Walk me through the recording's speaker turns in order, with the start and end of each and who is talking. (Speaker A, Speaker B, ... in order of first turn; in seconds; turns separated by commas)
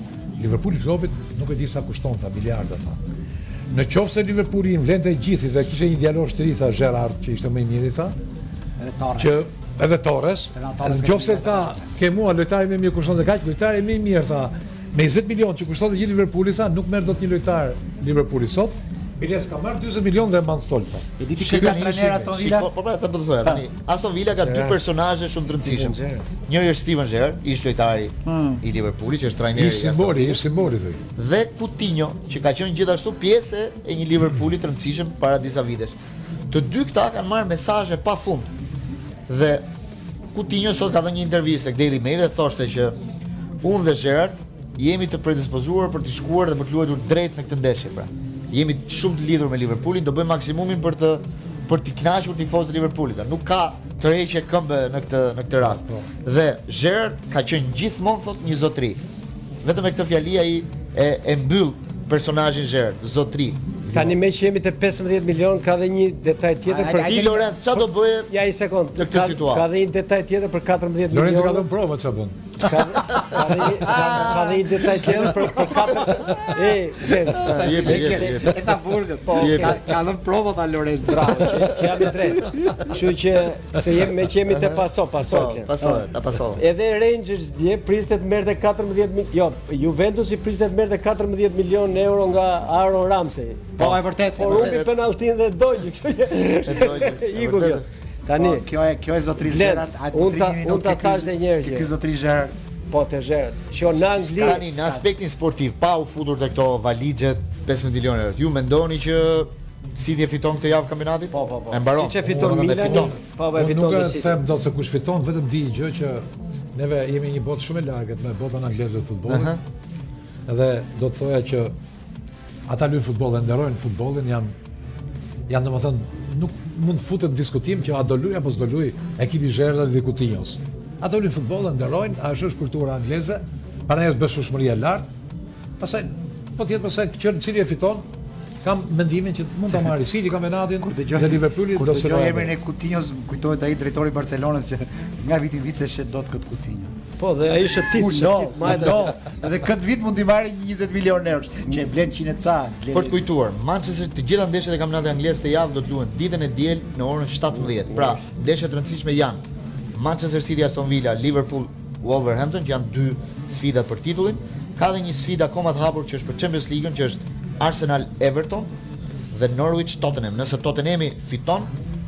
Speaker A: 0.4-3.0, Speaker A: 3.7-8.2, Speaker B: 8.8-9.5, Speaker A: 9.2-22.3, Speaker B: 10.5-11.9, Speaker B: 21.2-22.7, Speaker C: 21.4-30.4, Speaker D: 24.4-24.8, Speaker D: 25.6-26.3, Speaker B: 28.2-28.6, Speaker A: 29.5-31.0, Speaker C: 31.1-36.0, Speaker C: 36.5-38.5, Speaker C: 39.3-39.7, Speaker C: 40.3-43.0, Speaker C: 43.6-59.0, Speaker B: 55.7-56.0, Speaker C: 59.6-63.6, Speaker A: 63.9-64.1, Speaker D: 63.9-67.2, Speaker B: 66.7-67.6, Speaker C: 67.0-68.3, Speaker D: 68.3-71.7, Speaker C: 68.9-69.7, Speaker A: 71.1-72.5, Speaker D: 72.6-78.7, Speaker C: 73.1-73.4, Speaker B: 73.7-76.5, Speaker B: 77.1-82.1, Speaker C: 77.4-78.6, Speaker D: 79.2-79.8, Speaker C: 79.3-79.8, Speaker D: 81.2-85.7, Speaker C: 84.5-86.6, Speaker D: 86.5-93.8, Speaker C: 93.8-94.9, Speaker B: 93.8-94.8, Speaker D: 94.4-98.7, Speaker C: 96.6-97.9, Speaker B: 98.3-102.5, Speaker D: 99.4-101.9, Speaker D: 102.9-104.6, Speaker B: 104.0-105.0, Speaker C: 104.3-113.2, Speaker D: 111.3-114.4, Speaker A: 112.2-119.5, Speaker C: 119.3-119.6, Speaker A: 120.5-121.7, Speaker A: 122.7-124.5, Speaker A: 125.5-135.1, Speaker A: 135.8-138.1, Speaker A: 138.6-142.5, Speaker B: 139.7-140.0, Speaker B: 140.8-146.9, Speaker D: 147.2-149.2, Speaker B: 147.9-153.2, Speaker C: 152.9-159.4, Speaker D: 157.5-158.2, Speaker C: 159.9-168.7, Speaker C: 169.3-171.7